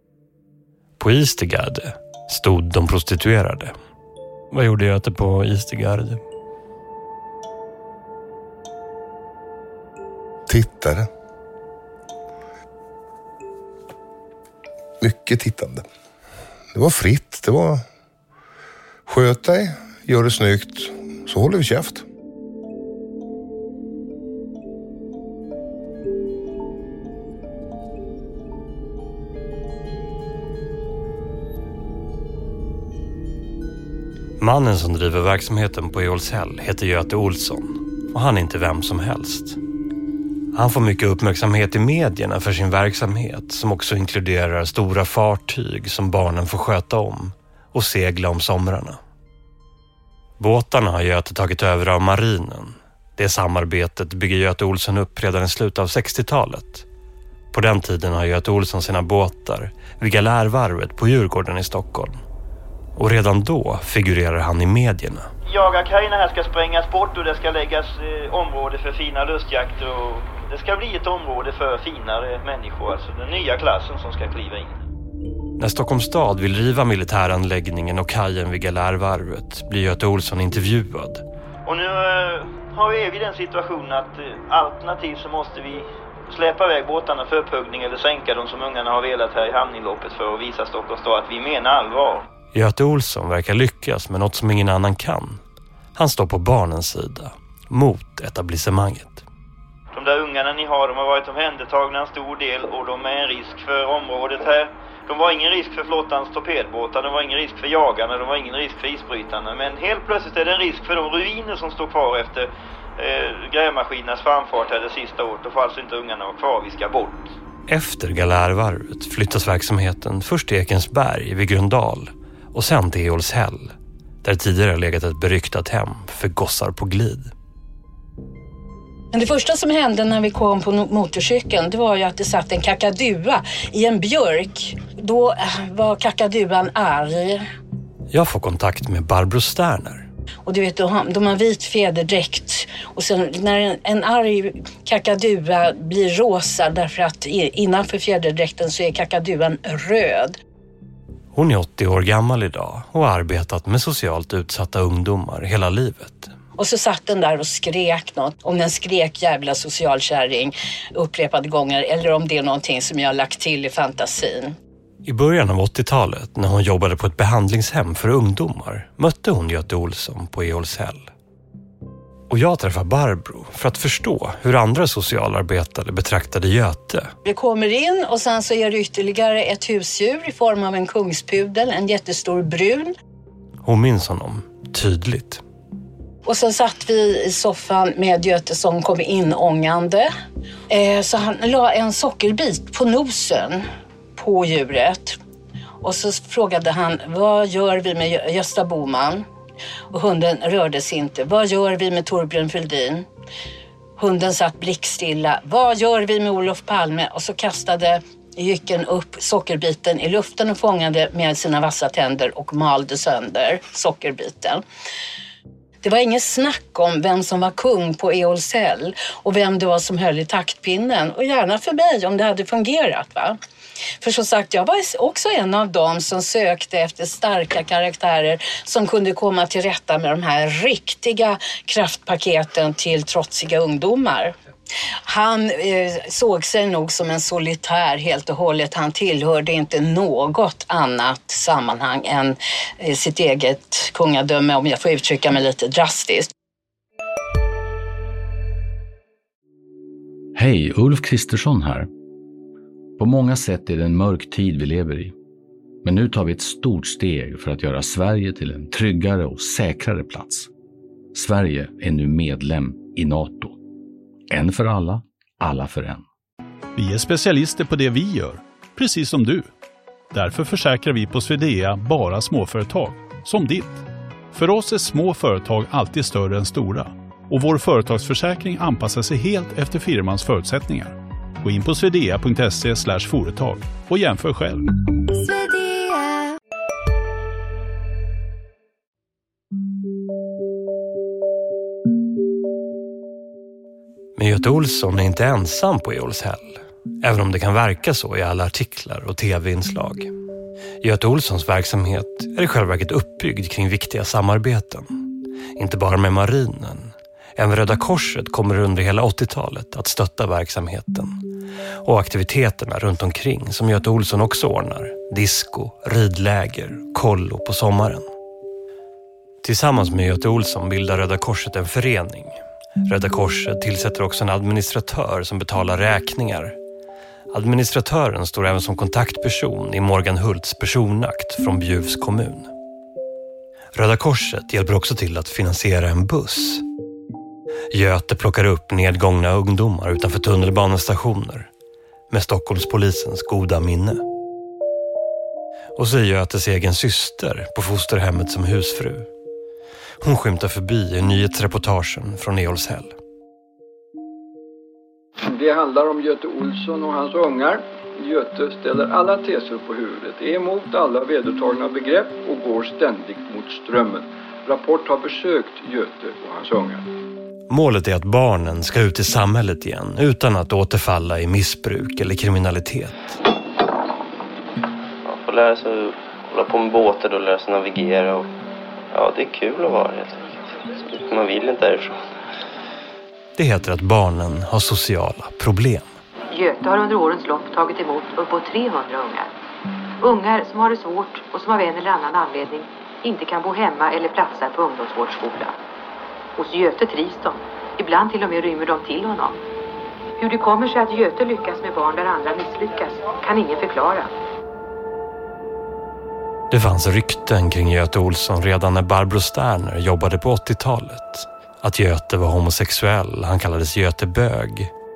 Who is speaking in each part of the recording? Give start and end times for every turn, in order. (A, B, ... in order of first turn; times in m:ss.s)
0:01.0-0:03.7 A
0:04.5-0:06.2 A
0:10.5-0:11.1 B
0:15.0-0:15.8 B
0:16.7-0:17.8 B
0:19.1-0:22.0 B
0:34.4-0:39.6 A
0:40.5-0:49.0 A
0:50.4-0:56.8 A
0:57.5-1:02.2 A
1:03.0-1:05.3 A
1:05.4-1:14.8 C
1:15.6-1:21.2 A
1:21.6-1:32.2 C
1:32.5-1:35.4 A
1:36.0-1:39.2 A
1:39.9-1:57.3 C
1:57.7-2:07.3 A
2:09.1-2:17.4 D
2:18.1-2:20.1 A
2:20.4-2:30.4 D
2:31.3-2:36.3 A
2:36.6-2:44.6 D
2:45.0-2:51.1 A
2:52.3-2:57.1 A
2:57.2-3:02.9 D
3:03.6-3:05.4 A
3:06.2-3:10.1 D
3:10.7-3:15.2 D
3:15.8-3:19.2 D
3:19.9-3:23.0 D
3:24.0-3:34.6 D
3:35.8-3:43.4 D
3:44.0-3:54.3 D
3:55.0-4:06.3 D
4:10.4-4:11.9 E
4:13.0-4:15.1 E
4:15.8-4:20.5 E
4:21.1-4:23.6 E
4:24.3-4:26.0 E
4:26.8-4:29.5 F
4:30.1-4:44.6 F
4:54.2-5:00.1 A
5:00.8-5:05.0 A
5:05.6-5:11.2 A
5:11.8-5:18.1 A
5:19.4-5:26.6 A
5:27.3-5:32.5 A
5:33.7-5:36.6 A
5:37.7-5:41.5 A
5:42.1-5:44.0 A
5:45.8-5:49.1 A
5:50.0-5:53.0 A
5:55.2-6:06.8 G
6:07.5-6:13.2 A
6:15.0-6:18.3 H
6:18.9-6:20.2 H
6:20.9-6:22.0 H
6:23.4-6:25.9 A
6:26.3-6:29.3 I
6:30.0-6:35.5 I
6:36.4-6:39.4 I
6:40.2-6:44.1 I
6:46.5-6:54.7 A